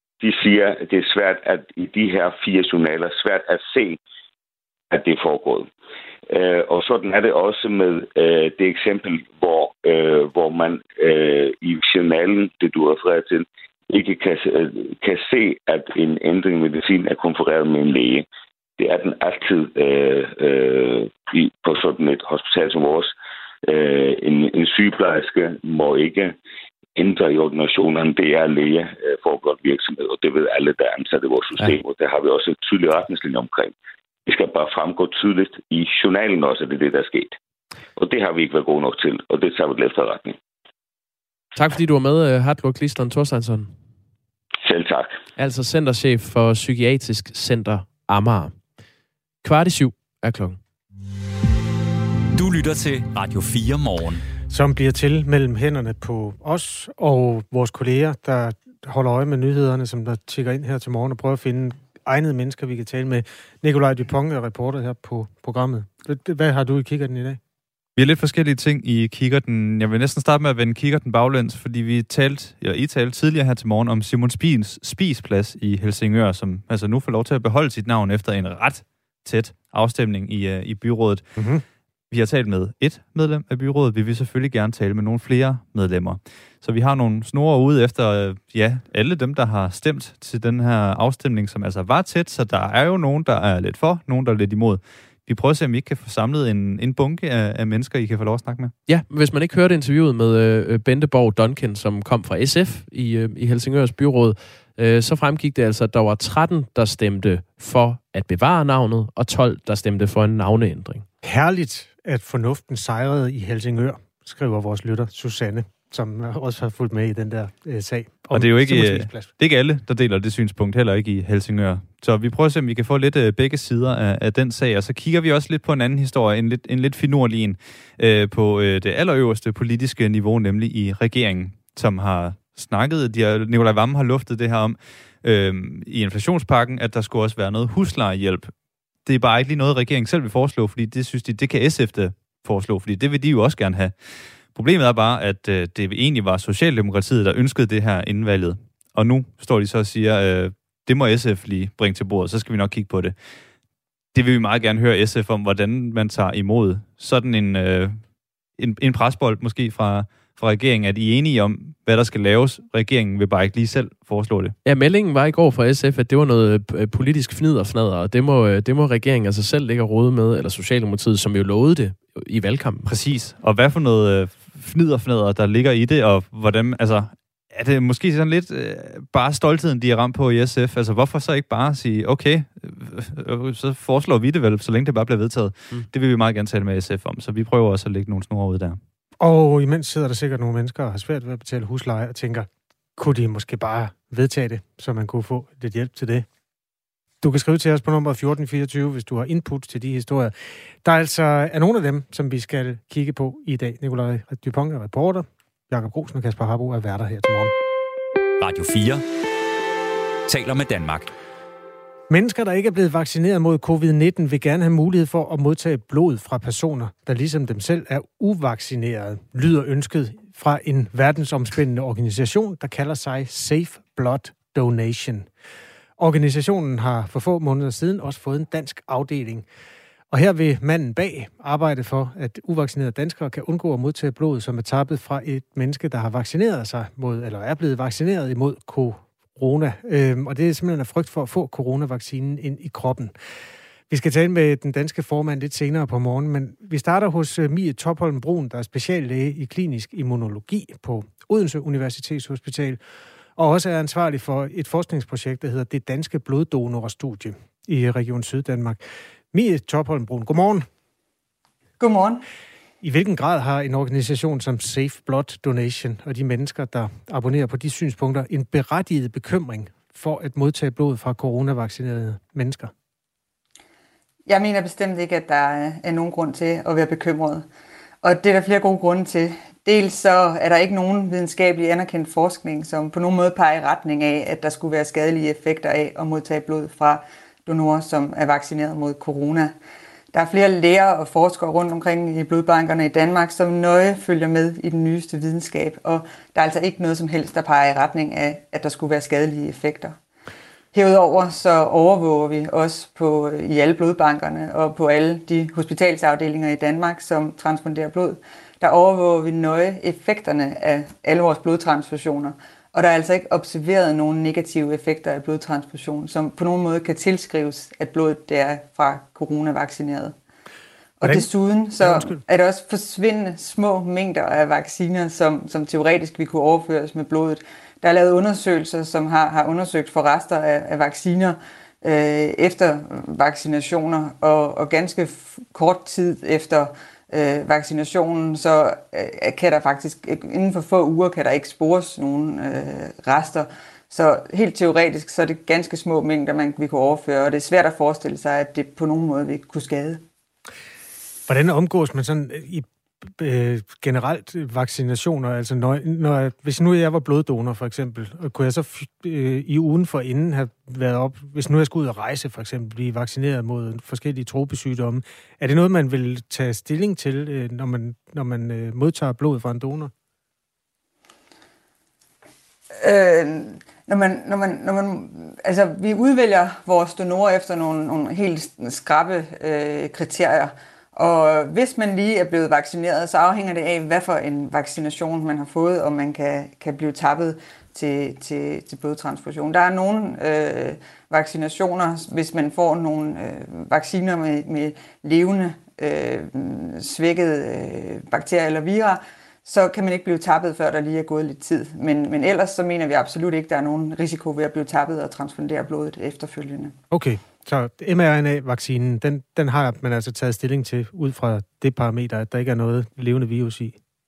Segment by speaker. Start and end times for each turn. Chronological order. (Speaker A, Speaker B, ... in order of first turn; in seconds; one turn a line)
Speaker A: 0.2-4.0
Speaker A: 4.9-5.7
Speaker A: 6.3-18.2
Speaker A: 18.8-23.1
Speaker A: 23.7-26.4
Speaker A: 27.0-33.7
Speaker A: 34.3-37.4
Speaker A: 38.0-40.4
Speaker B: 41.5-43.7
Speaker A: 44.6-45.1
Speaker B: 45.4-48.6
Speaker B: 49.4-50.6
Speaker C: 52.3-54.2
Speaker D: 54.5-67.4
Speaker E: 68.0-81.4
Speaker D: 81.4-81.6
Speaker E: 82.1-98.7
Speaker B: 98.9-111.1
Speaker D: 111.2-119.3
Speaker E: 118.3-138.5
Speaker E: 139.1-153.2
Speaker E: 154.1-164.6
Speaker B: 164.7-172.9
Speaker E: 172.8-188.8
Speaker D: 189.2-196.3
Speaker D: 197.2-207.5
Speaker C: 208.4-209.0
Speaker C: 210.3-211.1
Speaker D: 212.1-225.3
Speaker D: 226.0-229.5
Speaker D: 230.1-243.1
Speaker D: 243.9-252.8
Speaker D: 253.4-258.8
Speaker D: 259.3-260.7
Speaker F: 261.8-262.2
Speaker D: 262.8-272.7
Speaker F: 274.3-277.5
Speaker F: 278.0-289.5
Speaker F: 290.1-299.9
Speaker F: 300.7-320.1
Speaker F: 321.0-350.0
Speaker D: 321.8-322.2
Speaker D: 351.3-369.9
Speaker F: 372.8-406.7
Speaker D: 406.9-413.8